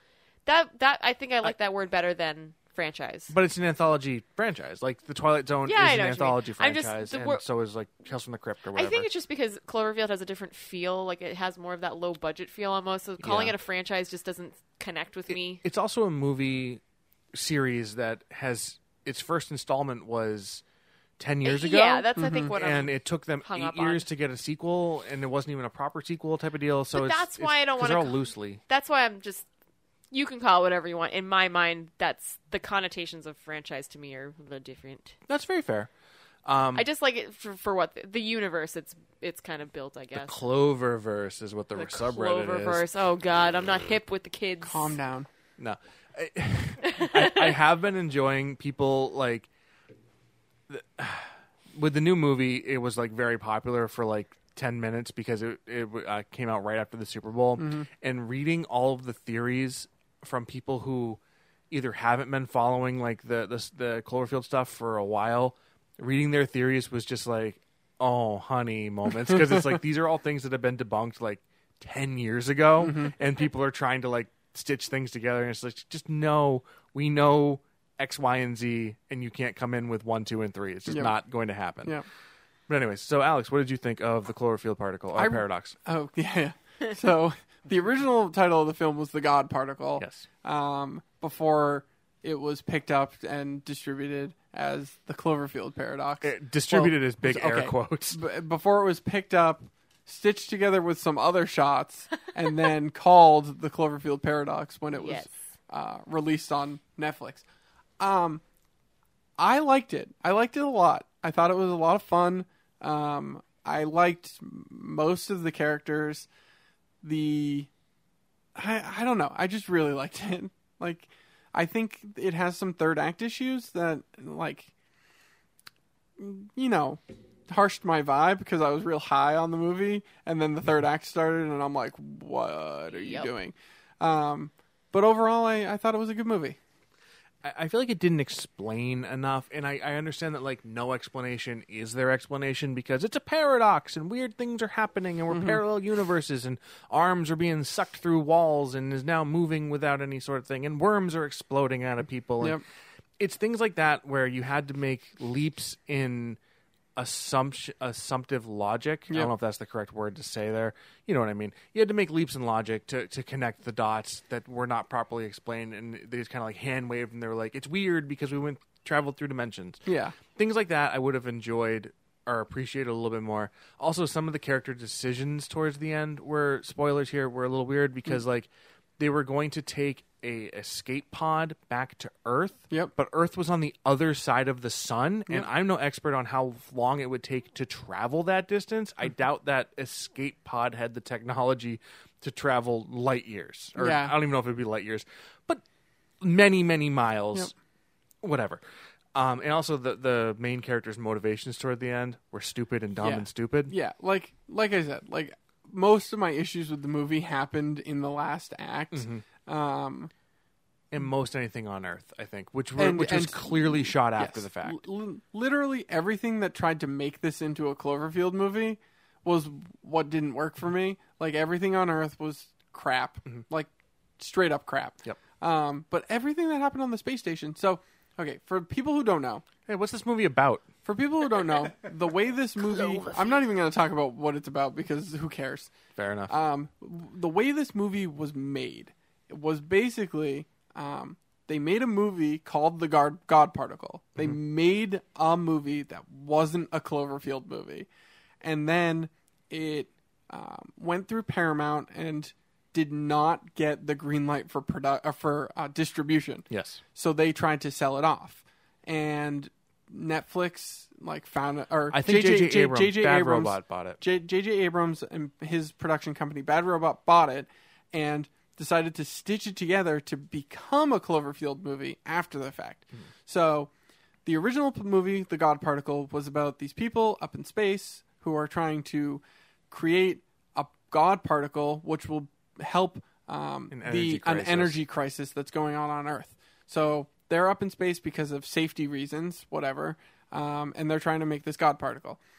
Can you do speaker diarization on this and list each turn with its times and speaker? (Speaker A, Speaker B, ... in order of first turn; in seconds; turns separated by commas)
Speaker A: 0.5-3.3, Speaker B: 3.3-9.1, Speaker A: 5.7-7.4, Speaker A: 8.7-15.6, Speaker B: 13.2-13.6, Speaker B: 15.3-16.8, Speaker B: 17.3-20.6, Speaker B: 21.2-28.6, Speaker A: 21.4-24.0, Speaker C: 22.1-22.6, Speaker A: 26.9-29.4, Speaker A: 30.1-35.1, Speaker B: 35.3-35.9, Speaker B: 36.4-36.9, Speaker A: 36.7-40.4, Speaker B: 40.1-42.9, Speaker A: 41.7-45.0, Speaker C: 44.6-45.3, Speaker B: 45.6-49.5, Speaker A: 46.9-47.5, Speaker B: 50.7-82.0, Speaker C: 57.6-57.9, Speaker C: 72.8-73.1, Speaker C: 80.9-81.1, Speaker B: 82.7-85.8, Speaker C: 85.1-107.4, Speaker B: 90.0-90.3, Speaker B: 96.2-98.2, Speaker A: 104.9-105.3, Speaker C: 108.0-108.4, Speaker C: 109.4-116.3, Speaker C: 117.0-117.7, Speaker C: 118.5-124.7, Speaker C: 126.2-136.6, Speaker A: 132.9-133.3, Speaker B: 137.4-152.6, Speaker C: 145.3-145.6, Speaker B: 153.2-156.4, Speaker B: 156.9-195.6, Speaker C: 169.8-170.2, Speaker C: 193.8-194.2, Speaker B: 196.2-197.5, Speaker B: 198.2-198.6, Speaker B: 199.1-203.7, Speaker C: 203.0-210.1, Speaker B: 208.9-209.2, Speaker B: 210.9-214.8, Speaker C: 212.8-229.4, Speaker B: 229.7-230.7, Speaker C: 230.8-235.7, Speaker A: 232.7-233.3, Speaker B: 235.9-236.3, Speaker C: 236.3-247.9, Speaker C: 248.4-273.7, Speaker B: 256.5-256.8, Speaker B: 261.9-264.0, Speaker C: 274.2-292.2, Speaker B: 283.7-284.8